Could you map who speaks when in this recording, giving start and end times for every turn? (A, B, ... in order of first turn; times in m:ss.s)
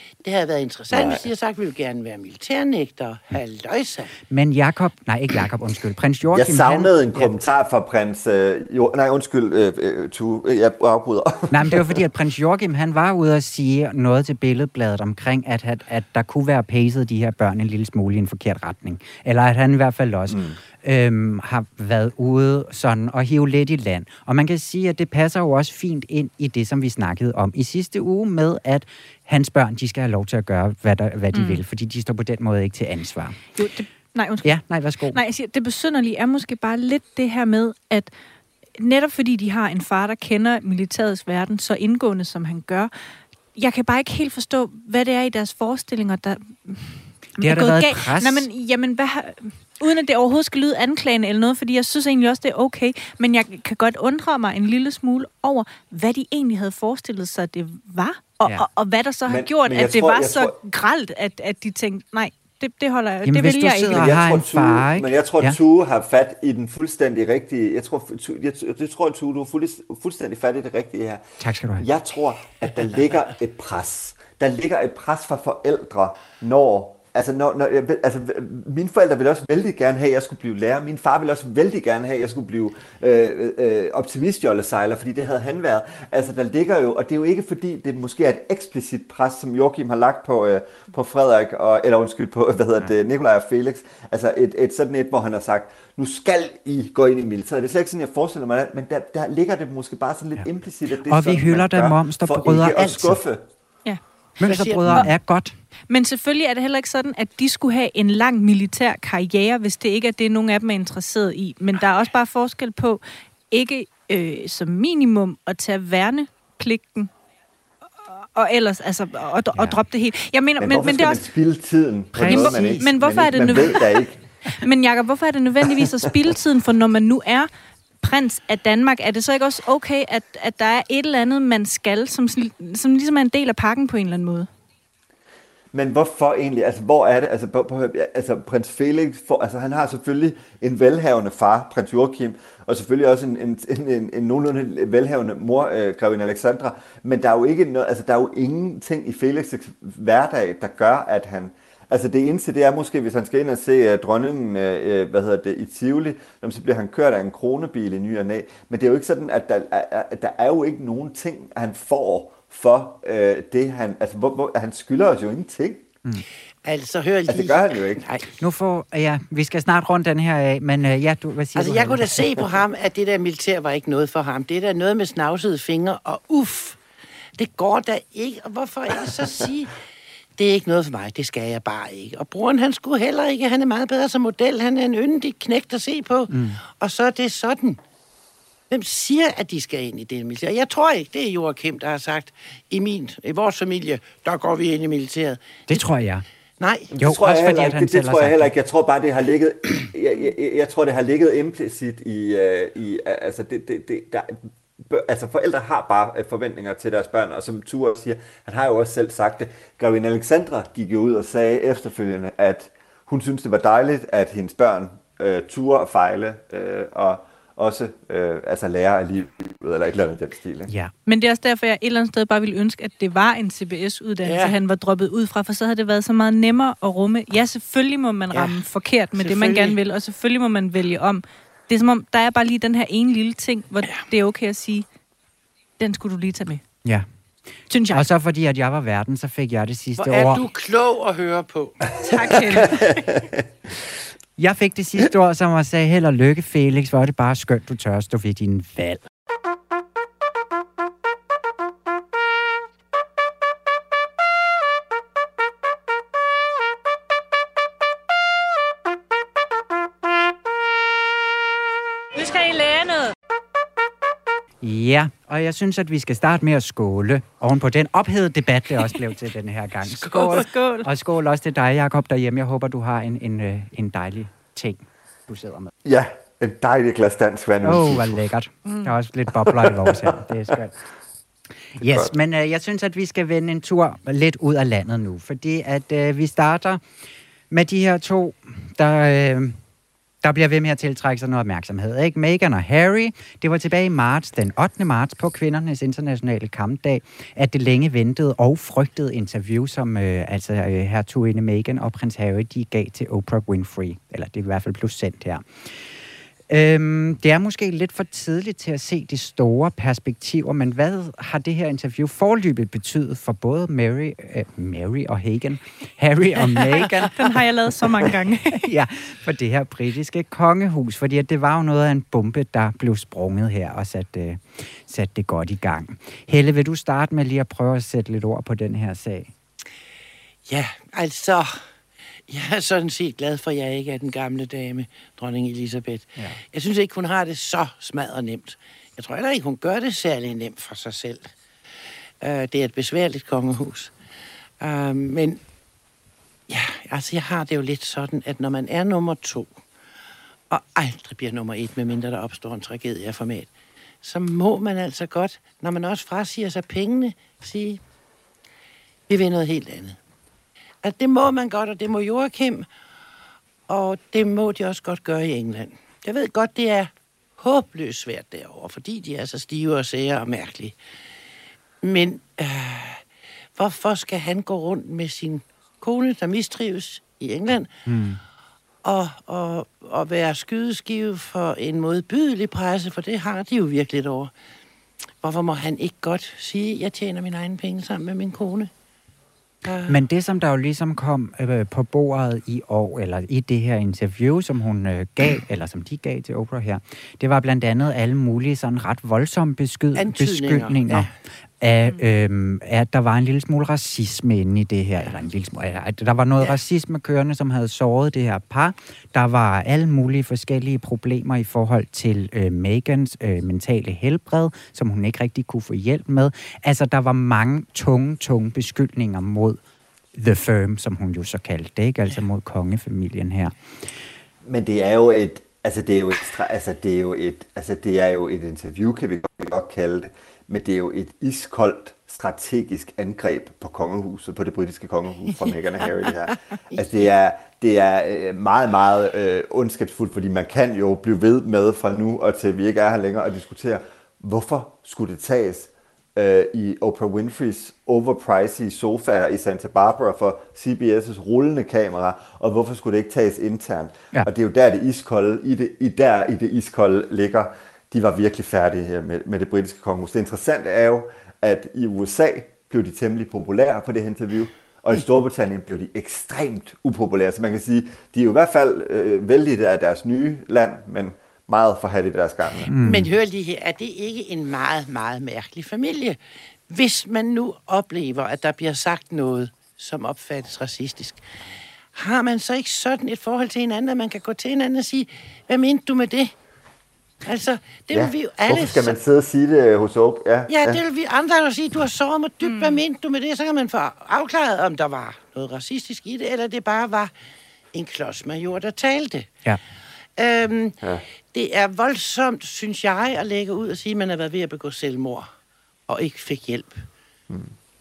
0:00.2-0:04.1 A
0:00.9-0:01.3 B
0:04.3-0:07.3 C
0:06.3-0:12.0 B
0:11.5-0:33.4 C
0:20.3-0:20.6 B
0:31.3-0:31.6 D
0:33.6-0:34.6 D
0:34.4-0:35.2 C
0:35.1-0:38.1 D
0:38.8-0:42.9 D
0:43.6-1:04.1 D
0:47.4-0:48.5 C
0:59.3-1:00.6 B
1:03.2-1:05.6 C
1:03.8-1:11.2 B
1:11.4-1:11.9 C
1:11.8-1:43.4 B
1:41.1-1:43.2 C
1:44.4-1:45.6 C
1:44.4-1:45.1 A
1:45.9-1:57.1 D
1:58.0-2:01.2 D
2:00.6-2:04.2 B
2:02.2-2:02.8 C
2:02.2-2:07.5 D
2:08.0-2:14.5 D
2:15.7-2:45.9 B
2:46.6-2:48.3 A
2:47.3-2:48.1 B
2:48.4-2:52.5 C
2:51.6-2:56.8 A
2:57.4-2:59.8 A
3:00.4-3:07.8 A
3:06.3-3:06.6 C
3:08.7-3:15.7 A
3:15.7-3:16.2 C
3:16.6-3:16.9 A
3:16.9-3:40.7 B
3:17.0-3:18.5 C
3:41.1-3:54.9 D
3:44.2-3:44.6 A
3:48.3-3:48.6 A
3:49.2-3:49.8 A
3:55.8-3:56.6 D
3:57.7-3:58.0 D
3:57.9-4:00.4 C
4:00.0-4:02.6 A
4:02.0-4:03.0 D
4:02.6-4:03.4 B
4:04.4-4:09.0 C
4:22.2-4:23.0 D
4:24.6-4:35.7 C
4:29.9-4:30.4 A
4:30.3-4:30.9 D
4:35.8-4:38.2 B
4:37.6-4:40.8 C
4:39.5-4:40.6 B
4:41.8-4:46.8 C
4:41.8-4:42.1 B
4:47.5-4:49.6 C
4:50.2-5:05.7 C
5:06.5-5:17.3 C
5:16.9-5:18.7 D
5:18.0-5:29.3 C
5:30.5-5:31.6 A
5:32.3-5:41.3 A
5:42.2-5:43.9 A
5:44.6-5:45.4 A
5:46.5-5:49.6 A
5:50.5-5:53.5 A
5:54.0-5:57.8 A
5:59.1-6:00.0 A
6:00.8-6:02.7 A
6:03.7-6:10.8 A
6:11.8-6:13.0 A
6:13.6-6:17.7 A
6:17.9-6:18.2 C
6:18.8-6:24.3 A
6:25.2-6:28.7 A
6:29.6-6:30.0 A
6:29.9-6:41.1 C
6:40.0-6:41.1 A
6:41.6-6:59.6 C
7:00.2-7:03.5 C
7:04.4-7:52.7 B
7:52.7-7:53.1 C
7:52.8-7:56.2 A
7:56.7-8:01.2 A
8:01.9-8:06.3 A
8:07.2-8:09.0 A
8:07.9-8:10.8 B
8:10.5-8:17.1 A
8:12.4-8:12.8 D
8:17.7-8:19.3 A
8:20.2-8:20.8 A
8:21.3-8:25.3 A
8:25.9-8:26.9 A